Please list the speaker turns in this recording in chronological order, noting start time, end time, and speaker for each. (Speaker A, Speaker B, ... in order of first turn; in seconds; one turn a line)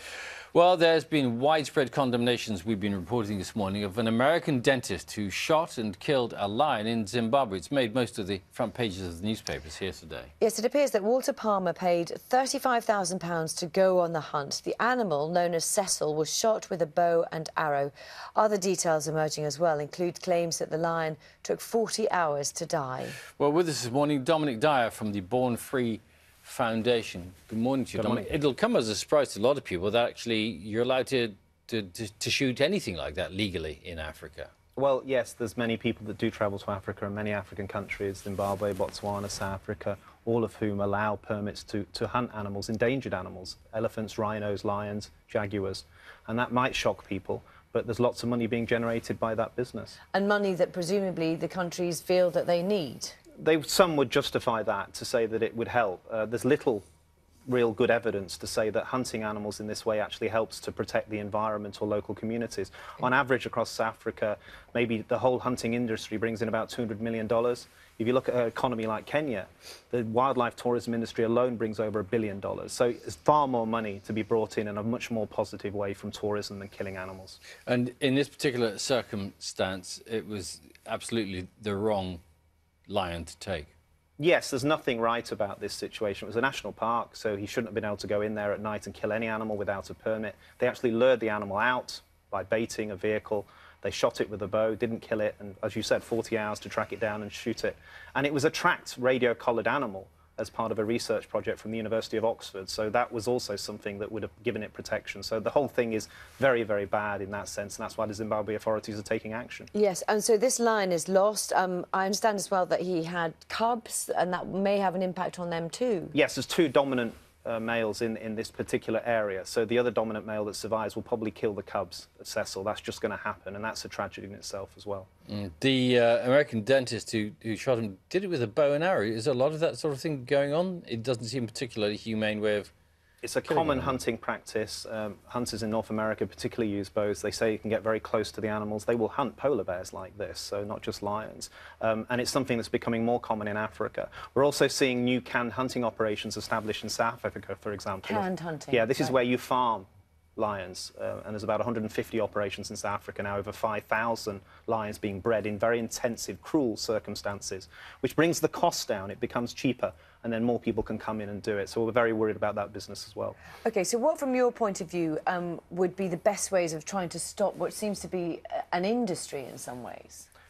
Speaker A: 0.5-10.3
Speaker B: 10.4-23.2
Speaker A: 23.4-34.5
Speaker C: 28.0-28.3
Speaker C: 34.8-50.0
Speaker B: 50.1-53.2
Speaker C: 53.4-56.8
Speaker C: 57.5-77.4
Speaker A: 77.7-82.2
Speaker A: 82.9-83.7
Speaker C: 84.2-109.7
Speaker B: 109.7-116.1
Speaker C: 116.1-125.1
Speaker A: 125.3-132.7
Speaker C: 133.2-163.4
Speaker A: 133.5-133.9
Speaker B: 148.1-149.2
Speaker B: 163.6-170.3